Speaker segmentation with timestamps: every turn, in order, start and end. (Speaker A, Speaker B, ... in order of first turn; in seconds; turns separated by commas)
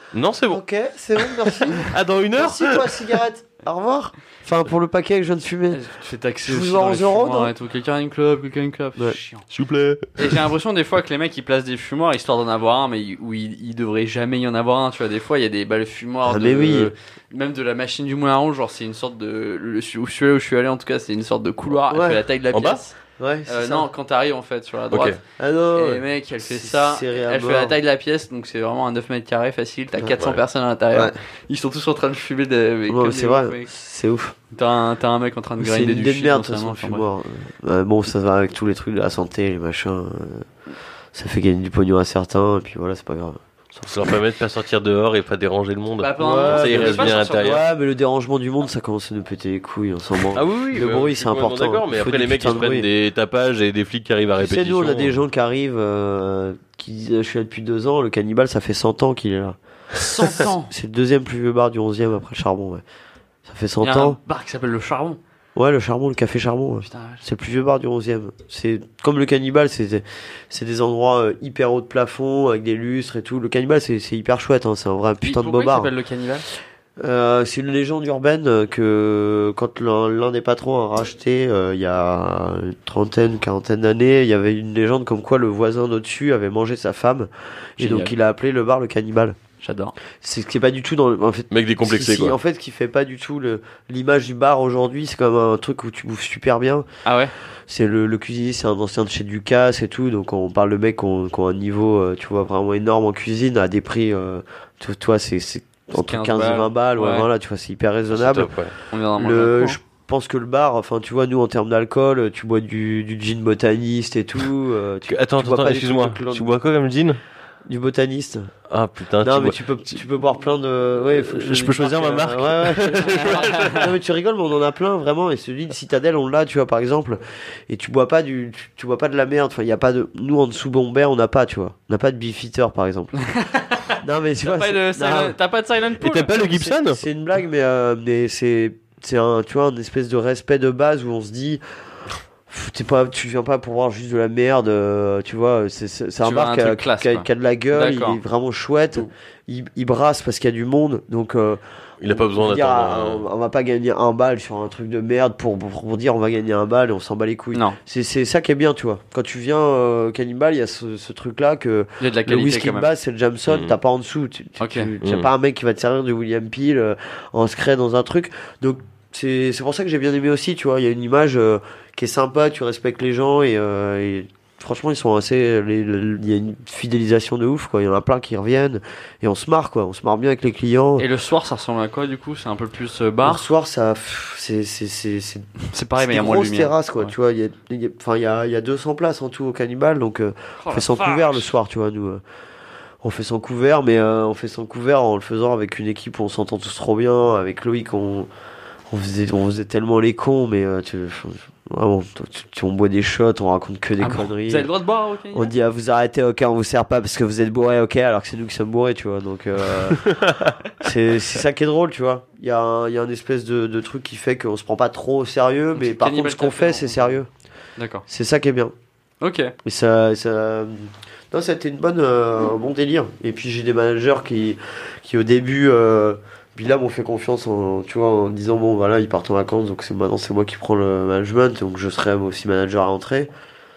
Speaker A: 0.1-0.6, Speaker B: 0.5-5.8, Speaker A: 1.2-3.2, Speaker C: 5.7-9.5, Speaker B: 6.4-7.5, Speaker A: 9.5-10.4, Speaker C: 10.2-25.2, Speaker B: 16.2-16.9, Speaker B: 21.9-22.2, Speaker A: 22.5-22.8, Speaker B: 23.2-23.9, Speaker A: 24.9-25.2, Speaker B: 25.4-27.8, Speaker C: 25.7-33.7, Speaker B: 32.9-34.4, Speaker C: 34.5-37.0, Speaker B: 35.6-40.5, Speaker B: 41.1-44.2, Speaker A: 43.9-47.6, Speaker C: 46.0-47.6, Speaker B: 46.2-52.9, Speaker A: 50.3-55.2, Speaker B: 54.4-59.6, Speaker C: 59.9-60.7, Speaker B: 60.1-62.8, Speaker B: 63.5-64.2, Speaker C: 63.8-65.2, Speaker B: 65.5-75.9, Speaker C: 66.8-67.2, Speaker C: 75.2-76.4, Speaker B: 77.0-89.4, Speaker C: 87.8-88.1, Speaker C: 89.6-89.9, Speaker B: 90.2-96.8, Speaker A: 91.5-92.4, Speaker C: 97.0-97.3, Speaker B: 97.7-108.5, Speaker C: 105.9-107.3, Speaker A: 108.1-108.7, Speaker C: 108.9-109.8, Speaker B: 109.2-116.5, Speaker A: 115.1-117.2, Speaker B: 117.7-118.5, Speaker A: 118.7-120.0, Speaker B: 119.2-133.1, Speaker A: 121.1-123.9, Speaker C: 123.0-123.9, Speaker C: 133.2-136.5, Speaker B: 134.0-135.3, Speaker A: 136.0-137.0, Speaker B: 136.5-141.6, Speaker B: 142.5-181.1, Speaker C: 146.2-148.2, Speaker A: 152.0-153.2, Speaker C: 162.0-162.9, Speaker A: 163.5-163.7, Speaker C: 164.6-164.9, Speaker A: 165.0-165.3, Speaker C: 181.0-183.4, Speaker B: 183.2-192.2, Speaker C: 185.6-187.1, Speaker C: 190.6-191.5, Speaker B: 193.0-198.3, Speaker B: 198.9-204.7, Speaker C: 204.0-205.5, Speaker B: 205.3-210.2, Speaker A: 209.9-210.5, Speaker B: 210.8-217.3, Speaker C: 215.7-217.2, Speaker C: 217.8-218.0, Speaker B: 218.1-218.7, Speaker C: 219.2-219.5, Speaker B: 219.6-233.3